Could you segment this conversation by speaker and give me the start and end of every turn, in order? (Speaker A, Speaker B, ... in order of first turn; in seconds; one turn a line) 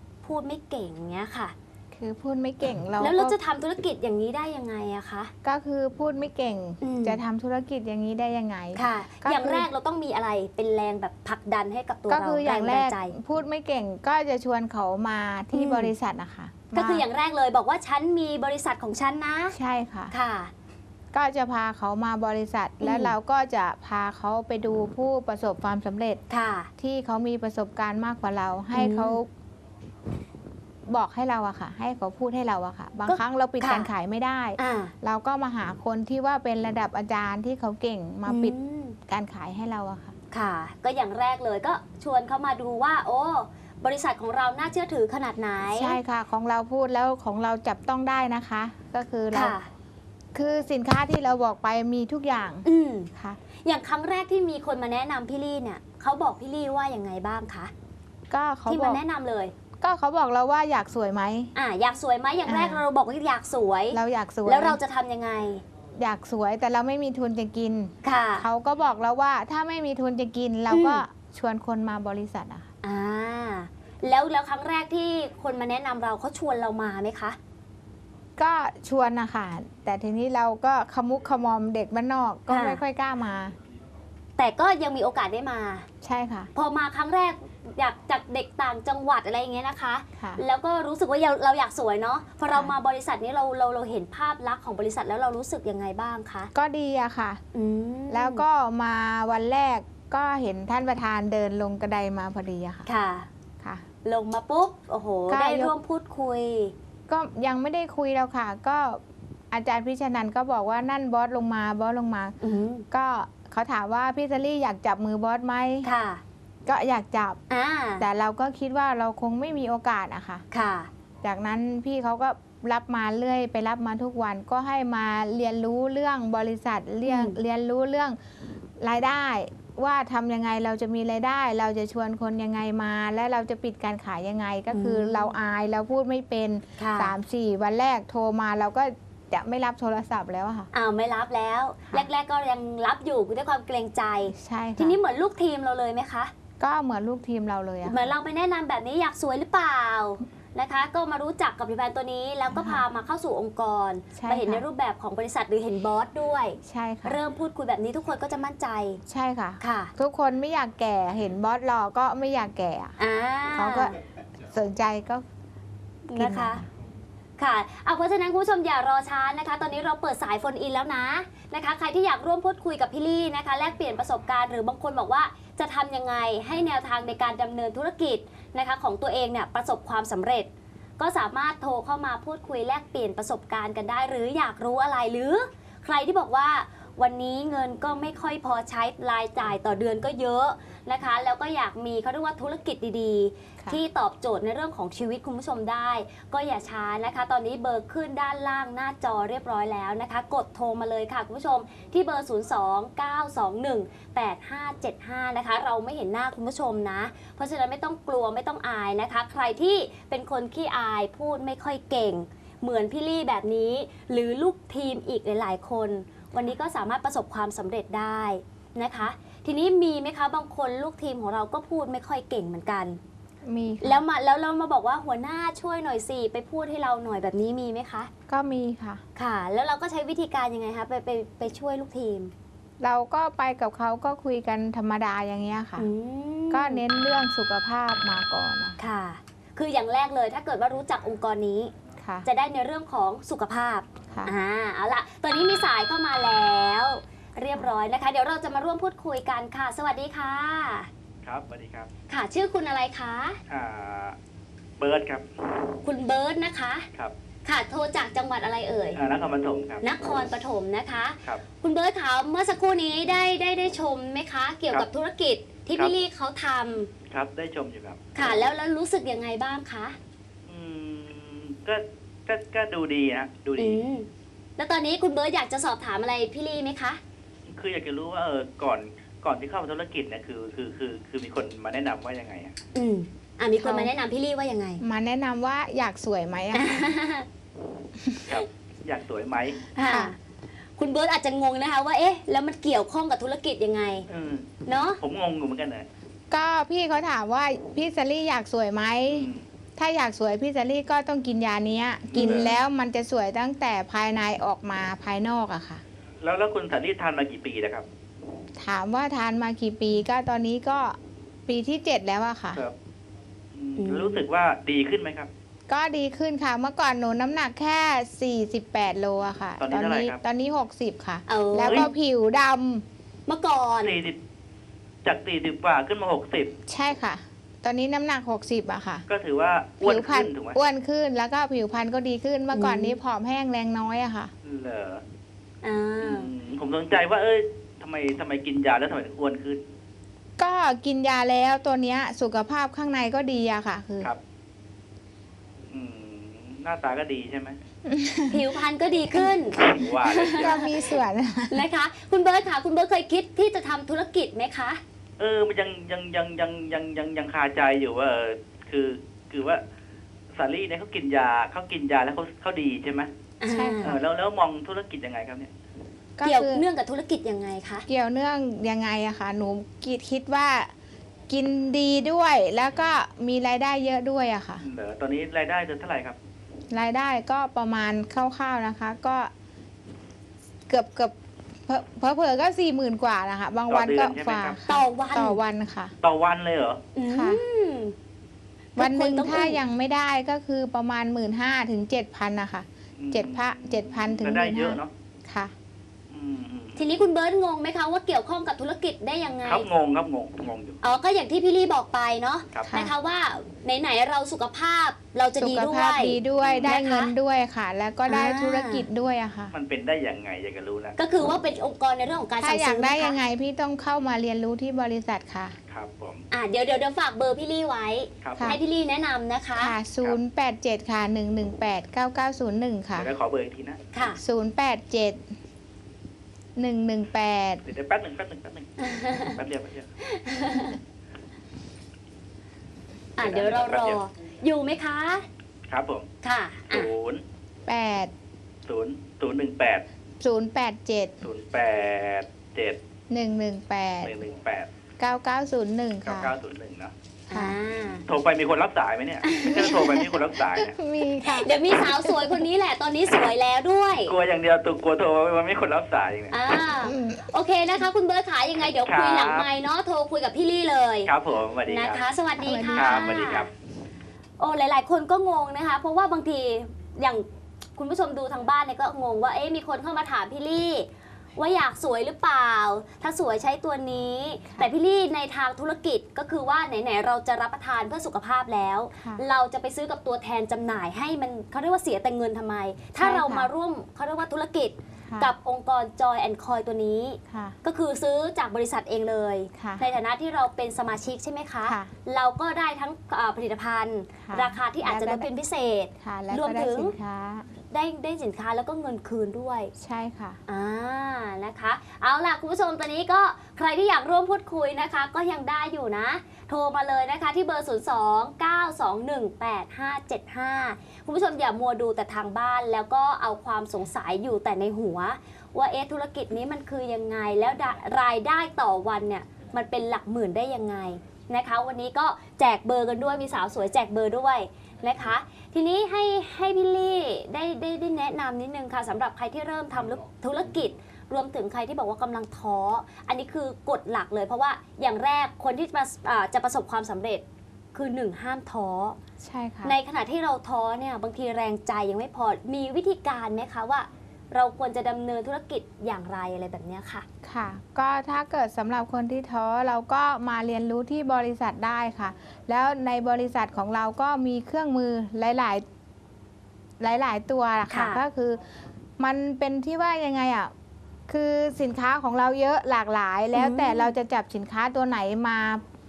Speaker A: 0.2-1.5
Speaker B: 1.9-3.4
Speaker A: 3.0-5.3
Speaker B: 5.4-9.7
Speaker A: 6.8-7.2
Speaker A: 8.8-13.1
Speaker B: 12.1-17.0
Speaker A: 15.5-15.9
Speaker A: 16.7-19.6
Speaker B: 19.5-20.1
Speaker A: 20.1-20.5
Speaker B: 21.1-26.2
Speaker A: 22.8-23.1
Speaker A: 26.3-26.7
Speaker B: 26.8-29.3
Speaker A: 28.7-29.2
Speaker B: 30.9-38.5
Speaker A: 33.1-33.9
Speaker A: 34.6-34.9
Speaker A: 38.3-39.0
Speaker B: 39.1-40.1
Speaker A: 40.3-46.0
Speaker B: 45.7-49.6
Speaker A: 49.3-49.7
Speaker B: 50.3-53.4
Speaker A: 52.6-53.1
Speaker A: 53.6-57.7
Speaker B: 58.3-59.0
Speaker A: 58.7-59.5
Speaker B: 59.8-61.5
Speaker A: 61.5-65.6
Speaker B: 62.5-62.8
Speaker B: 63.9-64.8
Speaker B: 66.0-72.7
Speaker A: 68.0-68.5
Speaker A: 70.7-71.0
Speaker A: 72.8-77.4
Speaker B: 78.4-83.6
Speaker A: 82.5-82.8
Speaker A: 84.4-85.9
Speaker B: 86.0-86.5
Speaker A: 86.5-96.5
Speaker B: 92.5-92.8
Speaker B: 96.5-97.4
Speaker A: 97.5-98.5
Speaker B: 98.1-102.9
Speaker A: 102.9-103.3
Speaker A: 104.0-106.7
Speaker B: 105.3-105.7
Speaker B: 107.1-112.4
Speaker A: 112.4-112.9
Speaker B: 112.9-115.9
Speaker A: 115.8-116.2
Speaker B: 116.7-117.4
Speaker A: 117.5-118.0
Speaker B: 118.0-120.4
Speaker A: 120.5-120.9
Speaker B: 121.2-128.2
Speaker A: 127.0-127.4
Speaker B: 128.8-140.7
Speaker A: 134.7-135.3
Speaker A: 136.8-137.1
Speaker A: 140.7-146.3
Speaker B: 144.3-145.0
Speaker B: 146.6-148.2
Speaker A: 147.8-159.0
Speaker B: 152.5-152.9
Speaker B: 154.2-154.7
Speaker B: 156.6-157.2
Speaker B: 159.1-162.9
Speaker A: 159.6-159.9
Speaker A: 163.0-163.9
Speaker B: 163.5-165.2
Speaker A: 166.1-166.6
Speaker B: 166.1-166.7
Speaker A: 167.4-223.0
Speaker B: 223.4-224.0
Speaker A: 223.8-228.1
Speaker B: 228.3-229.0
Speaker A: 229.2-232.3
Speaker B: 232.8-235.9
Speaker A: 235.8-236.8
Speaker B: 236.5-238.8
Speaker A: 238.8-241.7
Speaker B: 242.0-242.3
Speaker A: 242.2-250.9
Speaker C: 251.2-251.9
Speaker A: 252.1-253.4
Speaker C: 253.5-254.2
Speaker C: 254.8-255.6
Speaker A: 255.8-256.9
Speaker A: 257.4-259.0
Speaker C: 259.0-259.8
Speaker A: 259.8-266.9
Speaker C: 267.1-268.0
Speaker A: 268.1-270.0
Speaker C: 270.5-273.8
Speaker A: 273.6-277.0
Speaker C: 277.5-282.5
Speaker A: 282.8-284.8
Speaker B: 283.6-283.9
Speaker B: 284.8-286.8
Speaker A: 286.5-287.3
Speaker B: 288.0-288.4
Speaker C: 288.3-289.6
Speaker A: 289.7-290.2
Speaker B: 289.8-290.1
Speaker A: 290.8-294.1
Speaker C: 294.1-294.5
Speaker A: 294.6-295.0
Speaker C: 295.0-295.9
Speaker B: 296.3-305.8
Speaker C: 299.1-299.4
Speaker C: 302.1-302.6
Speaker C: 306.2-307.9
Speaker B: 308.6-312.6
Speaker C: 313.5-315.3
Speaker A: 313.8-314.2
Speaker B: 315.7-322.9
Speaker C: 319.6-320.2
Speaker A: 321.3-321.9
Speaker C: 321.6-321.9
Speaker A: 323.3-324.0
Speaker C: 323.8-324.2
Speaker C: 325.0-326.5
Speaker B: 326.7-329.1
Speaker C: 329.1-330.6
Speaker B: 329.8-334.3
Speaker A: 332.5-333.0
Speaker C: 334.4-335.0
Speaker A: 335.6-336.3
Speaker C: 336.0-339.6
Speaker B: 340.4-344.1
Speaker C: 345.7-347.6
Speaker B: 347.9-348.4
Speaker A: 348.3-350.7
Speaker C: 349.6-350.6
Speaker B: 350.4-351.6
Speaker A: 351.5-354.8
Speaker C: 355.2-359.6
Speaker C: 360.4-363.1
Speaker A: 363.4-364.0
Speaker B: 363.5-364.0
Speaker C: 363.8-365.5
Speaker B: 366.2-366.6
Speaker A: 366.2-367.9
Speaker B: 367.9-370.7
Speaker B: 371.3-374.6
Speaker C: 374.6-376.2
Speaker B: 376.7-379.3
Speaker B: 380.7-381.1
Speaker B: 381.7-385.9
Speaker C: 383.7-384.6
Speaker A: 384.7-385.4
Speaker C: 386.0-386.8
Speaker A: 386.9-387.9
Speaker B: 387.1-387.4
Speaker A: 388.8-389.6
Speaker B: 388.8-395.5
Speaker C: 393.0-394.9
Speaker C: 396.1-396.9
Speaker A: 396.8-399.7
Speaker C: 399.4-400.8
Speaker A: 400.8-407.1
Speaker C: 402.5-402.8
Speaker B: 402.7-402.9
Speaker B: 405.4-409.5
Speaker C: 406.4-406.7
Speaker A: 408.1-408.9
Speaker C: 409.5-411.0
Speaker A: 411.0-413.2
Speaker B: 412.4-415.6
Speaker C: 415.7-416.2
Speaker A: 416.3-419.8
Speaker C: 418.2-418.6
Speaker B: 419.6-423.1
Speaker C: 422.9-423.8
Speaker A: 423.9-424.2
Speaker B: 424.2-425.2
Speaker B: 426.6-427.6
Speaker C: 427.7-429.9
Speaker A: 428.8-429.4
Speaker A: 430.0-430.8
Speaker A: 433.2-435.2
Speaker C: 433.2-434.0
Speaker C: 435.7-436.1
Speaker A: 436.2-436.9
Speaker C: 436.7-437.2
Speaker B: 437.7-438.1
Speaker C: 438.7-439.8
Speaker B: 440.2-441.1
Speaker C: 441.2-442.8
Speaker B: 443.1-444.1
Speaker C: 444.0-444.7
Speaker B: 445.0-446.4
Speaker C: 446.0-446.9
Speaker B: 447.3-447.6
Speaker A: 447.3-448.0
Speaker C: 448.1-450.8
Speaker A: 449.2-450.2
Speaker B: 449.4-449.9
Speaker B: 450.4-452.5
Speaker A: 451.2-454.1
Speaker C: 454.1-456.4
Speaker A: 456.3-461.1
Speaker B: 456.8-457.2
Speaker C: 458.9-459.5
Speaker C: 461.1-462.1
Speaker A: 461.6-463.5
Speaker B: 462.4-463.4
Speaker C: 462.7-463.5
Speaker A: 464.4-467.2
Speaker A: 467.8-496.9
Speaker B: 483.0-483.5
Speaker B: 487.3-487.6
Speaker B: 489.6-489.9
Speaker B: 491.6-491.9
Speaker B: 494.2-495.3
Speaker B: 496.0-497.5
Speaker A: 497.7-499.7
Speaker B: 499.8-500.4
Speaker A: 500.5-539.0
Speaker B: 539.2-539.8
Speaker A: 539.6-547.0
Speaker B: 547.2-555.6
Speaker B: 556.8-558.4
Speaker A: 557.7-558.0
Speaker B: 559.0-560.5
Speaker B: 561.1-565.6
Speaker A: 563.3-563.9